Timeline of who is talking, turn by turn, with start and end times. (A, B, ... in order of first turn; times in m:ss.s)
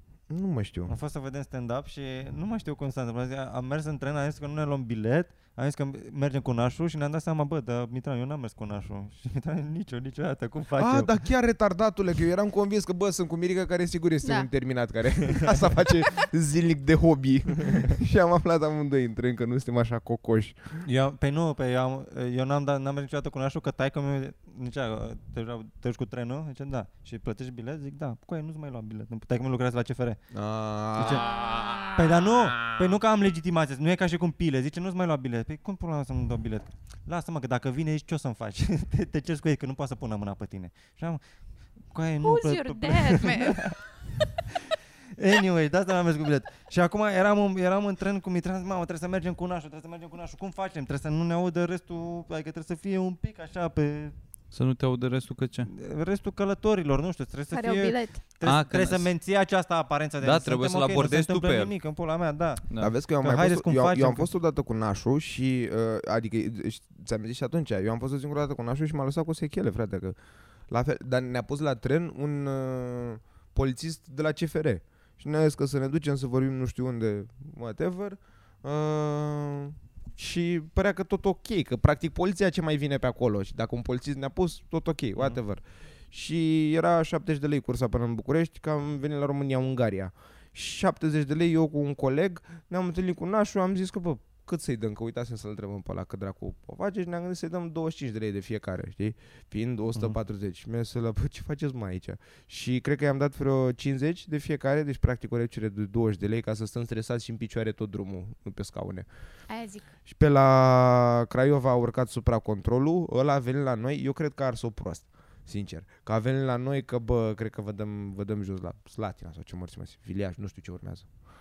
0:00.3-0:00.9 A
0:00.9-0:11.1 B
0:10.8-0:20.8 A
0:14.2-0:14.5 C
0:15.3-0:15.6 B
0:20.8-0:30.2 B
0:30.3-0:32.0 A
0:31.0-0:31.3 B
0:32.0-0:41.2 B
0:41.9-0:43.8 B
0:42.2-0:43.9 C
0:45.2-0:54.2 B
0:54.5-0:55.7 D
0:55.7-1:02.6 B
0:57.5-0:58.2 C
0:58.4-0:59.1 D
1:00.2-1:01.7 D
1:02.8-1:10.2 A
1:03.2-1:04.3 B
1:10.7-1:49.1 A
1:49.5-1:49.9 C
1:50.1-2:01.1 A